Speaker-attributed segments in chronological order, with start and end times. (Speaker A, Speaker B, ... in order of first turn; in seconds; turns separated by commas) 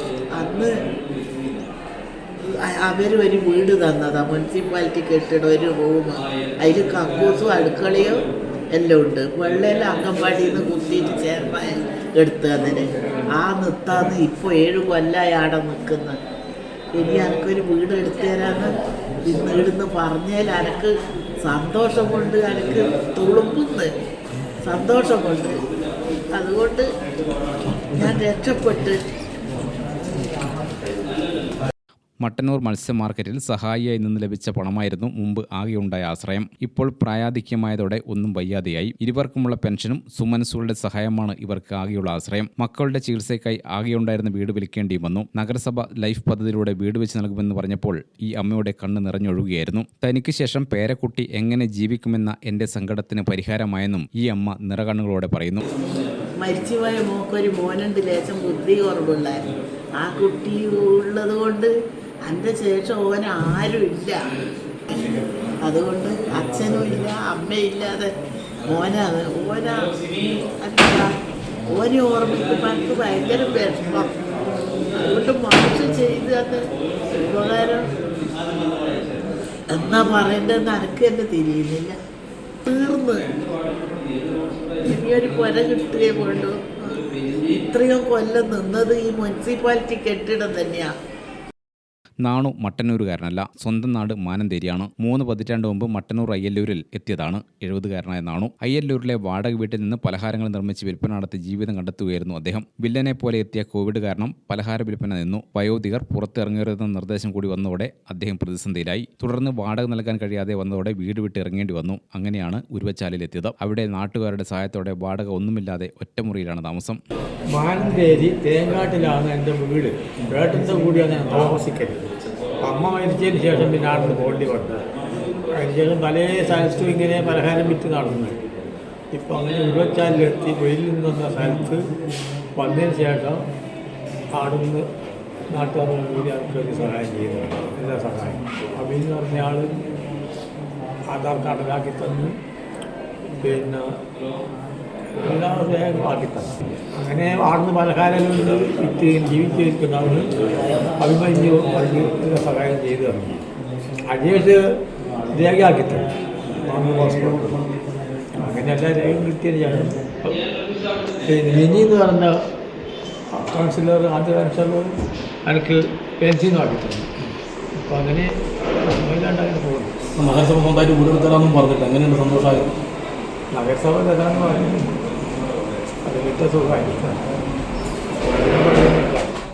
Speaker A: 0.3-0.7, Speaker A: 2.6-16.2, Speaker A: 16.9-23.9, Speaker A: 24.6-25.6, Speaker A: 26.3-26.9, Speaker A: 27.9-29.0, Speaker B: 32.2-55.6, Speaker A: 56.4-61.7, Speaker A: 62.2-64.2, Speaker A: 65.6-68.1, Speaker A: 68.7-70.1, Speaker A: 70.6-71.1, Speaker A: 71.7-74.1, Speaker A: 75.0-76.6, Speaker A: 77.2-77.9, Speaker A: 79.7-82.0, Speaker A: 82.6-83.4, Speaker A: 84.8-90.9, Speaker B: 92.2-117.0, Speaker C: 117.5-122.1, Speaker C: 122.6-124.8, Speaker C: 125.5-128.4, Speaker C: 129.1-131.9, Speaker C: 132.6-133.5, Speaker C: 134.3-134.9, Speaker C: 135.5-139.9, Speaker C: 141.1-142.4, Speaker C: 143.4-144.0, Speaker C: 145.2-150.3, Speaker C: 150.9-153.4, Speaker C: 154.1-154.8, Speaker C: 155.3-157.6, Speaker C: 158.3-160.4, Speaker C: 161.2-162.3, Speaker C: 163.3-164.9, Speaker C: 165.4-167.1, Speaker C: 167.8-168.3, Speaker C: 168.8-169.9, Speaker D: 170.2-172.7, Speaker C: 173.5-175.0, Speaker C: 176.0-177.2, Speaker C: 178.3-179.3